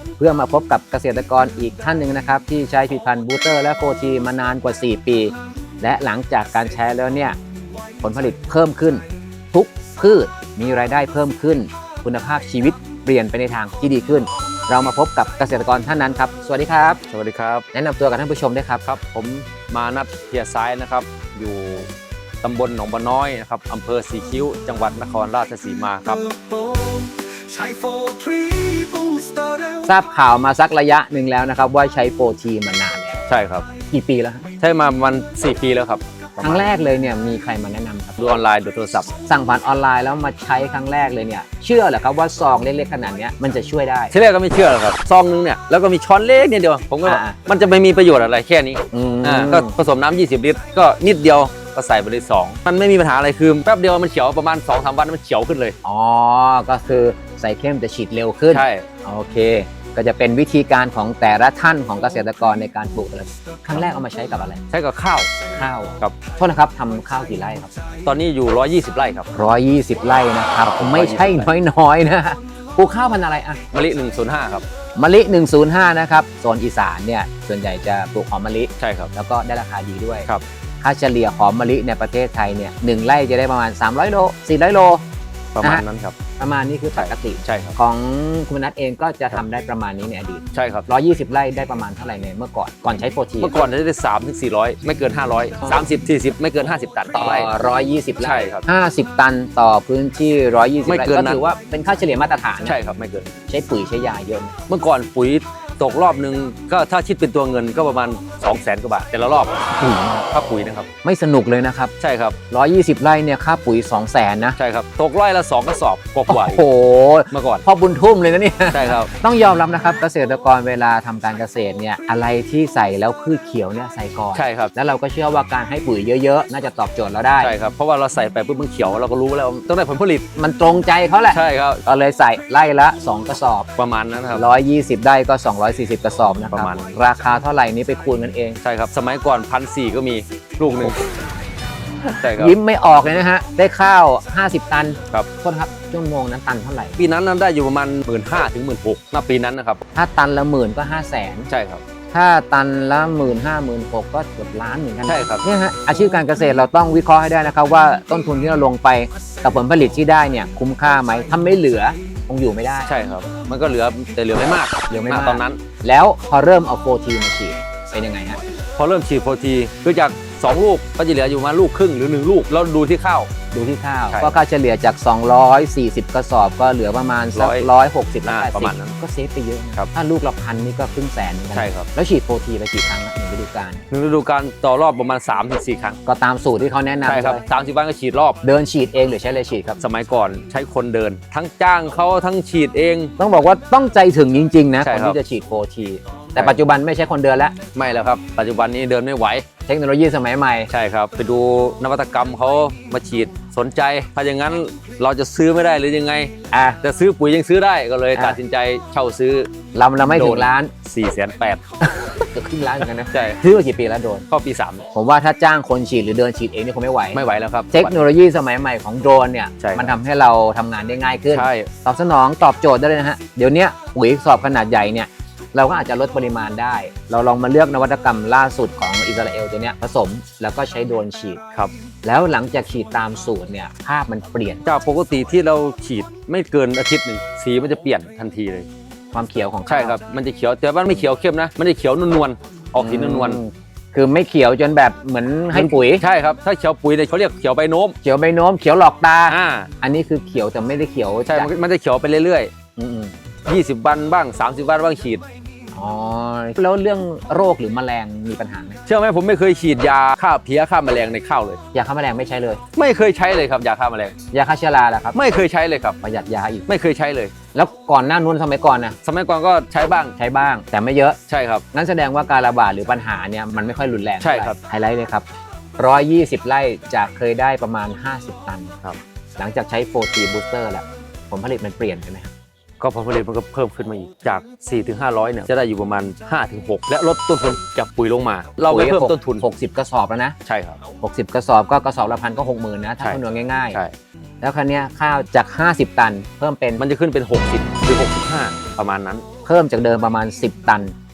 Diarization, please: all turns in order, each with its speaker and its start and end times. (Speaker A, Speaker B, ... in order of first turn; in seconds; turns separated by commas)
Speaker A: 0.2-7.4, Speaker A: 8.0-17.0, Speaker B: 17.1-17.7, Speaker A: 17.7-18.8, Speaker B: 18.8-21.9, Speaker B: 22.4-26.3, Speaker C: 26.4-29.7, Speaker A: 29.8-33.2, Speaker B: 33.3-33.7, Speaker A: 33.9-34.5, Speaker B: 34.6-36.7, Speaker A: 36.4-38.3, Speaker B: 38.2-39.1, Speaker A: 39.2-44.1, Speaker B: 44.1-55.8, Speaker A: 47.0-47.4, Speaker A: 48.9-49.8, Speaker A: 55.8-64.6, Speaker B: 58.5-58.9, Speaker B: 64.7-65.3, Speaker A: 65.5-67.7, Speaker B: 68.0-69.3, Speaker A: 69.3-73.6, Speaker B: 70.6-71.5, Speaker B: 73.7-74.6, Speaker A: 75.0-80.3, Speaker B: 78.8-79.1, Speaker A: 80.8-85.0, Speaker B: 85.5-86.2, Speaker A: 86.4-93.6, Speaker B: 87.0-87.8, Speaker B: 90.5-90.9, Speaker B: 93.4-97.5, Speaker A: 97.1-102.8, Speaker B: 98.2-98.6, Speaker B: 100.9-101.5, Speaker B: 102.7-103.3, Speaker A: 103.5-104.5, Speaker B: 104.7-109.7, Speaker A: 109.8-110.3, Speaker B: 110.3-110.9, Speaker A: 111.0-111.9, Speaker B: 112.0-112.4, Speaker A: 112.5-114.6, Speaker B: 114.6-116.6, Speaker A: 116.3-127.5, Speaker B: 117.3-117.6, Speaker B: 118.7-119.1, Speaker B: 124.3-124.7, Speaker B: 127.4-130.3, Speaker A: 130.4-133.7, Speaker B: 131.3-131.8, Speaker B: 133.8-134.4, Speaker A: 134.3-138.6, Speaker B: 136.5-137.0, Speaker B: 138.6-141.0, Speaker A: 140.7-141.1, Speaker A: 142.1-147.0, Speaker B: 142.2-142.6, Speaker B: 147.0-149.8, Speaker A: 149.9-151.5, Speaker B: 151.5-151.8, Speaker A: 152.1-162.9, Speaker B: 155.1-155.4, Speaker B: 162.9-165.6, Speaker A: 164.9-168.4, Speaker B: 168.8-173.3, Speaker A: 173.5-183.8, Speaker B: 174.1-174.4, Speaker B: 177.3-177.7, Speaker B: 178.3-179.0, Speaker B: 181.5-181.9, Speaker B: 183.9-186.0, Speaker A: 186.1-187.4, Speaker B: 187.1-188.4, Speaker A: 188.4-189.8, Speaker B: 189.8-193.1, Speaker A: 193.2-197.6, Speaker B: 194.8-195.2, Speaker B: 197.7-199.4, Speaker A: 199.7-200.7, Speaker B: 200.7-211.6, Speaker A: 206.5-206.8, Speaker A: 209.7-210.7, Speaker A: 211.8-214.3, Speaker B: 213.1-213.4, Speaker B: 214.3-214.9, Speaker A: 214.9-231.4, Speaker B: 217.1-218.0, Speaker B: 219.6-220.0, Speaker B: 221.3-221.7, Speaker A: 232.0-234.6, Speaker B: 234.6-238.7, Speaker A: 239.1-240.0, Speaker B: 239.7-243.4, Speaker A: 242.8-246.1, Speaker B: 245.5-248.0, Speaker A: 248.0-251.5, Speaker B: 249.3-249.7, Speaker B: 251.3-252.5, Speaker A: 252.8-253.2, Speaker B: 253.5-255.2, Speaker A: 255.7-258.8, Speaker B: 258.9-261.6, Speaker A: 261.7-262.6, Speaker B: 262.8-264.2, Speaker A: 264.3-265.2, Speaker B: 265.1-266.0, Speaker A: 266.0-266.7, Speaker B: 266.7-267.3, Speaker A: 267.5-269.0, Speaker B: 269.0-270.1, Speaker A: 270.2-271.2, Speaker B: 271.3-271.6, Speaker A: 271.7-275.3, Speaker B: 274.2-274.6, Speaker A: 275.8-278.8, Speaker A: 279.4-282.3, Speaker B: 282.8-289.5, Speaker A: 288.7-290.4, Speaker B: 290.4-290.8, Speaker A: 291.0-293.8, Speaker A: 294.4-296.8, Speaker B: 296.8-299.2, Speaker A: 299.4-300.9